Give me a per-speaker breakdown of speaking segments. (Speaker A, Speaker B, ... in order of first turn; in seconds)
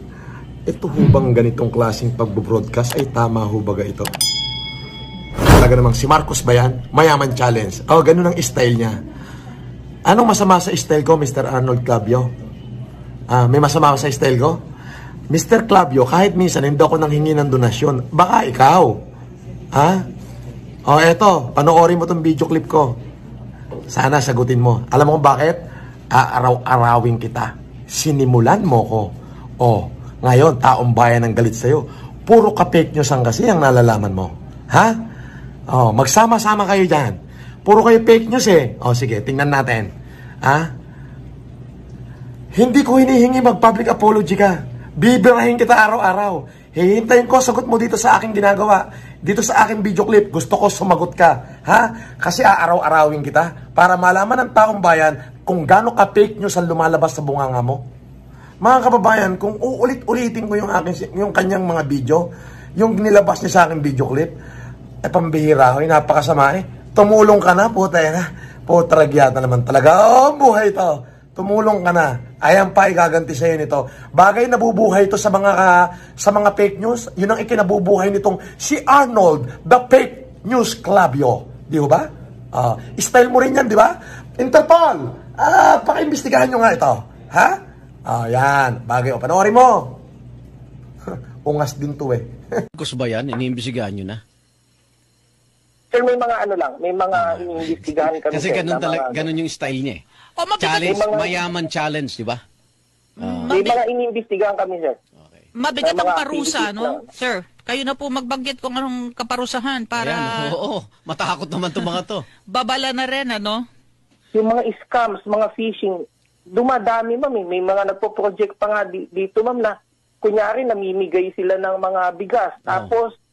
Speaker A: 0.7-4.1, 5.4-9.0, 10.1-12.3, 13.3-14.6, 15.3-19.0, 19.7-20.0, 20.9-22.9, 23.9-25.6, 26.1-34.9, 35.7-39.9, 40.4-40.7, 42.5-57.8, 58.6-64.3, 65.0-90.0, 91.1-92.3
Speaker B: 92.7-94.2, 97.1-100.0, 100.6-102.4, 103.2-103.5, 105.2-105.4, 110.0-112.2
Speaker C: 95.9-99.3, 100.8-101.4, 103.5-105.0, 105.8-107.0, 114.3-123.1
Speaker D: 100.4-101.0, 103.2-103.8, 105.5-110.5, 112.5-113.6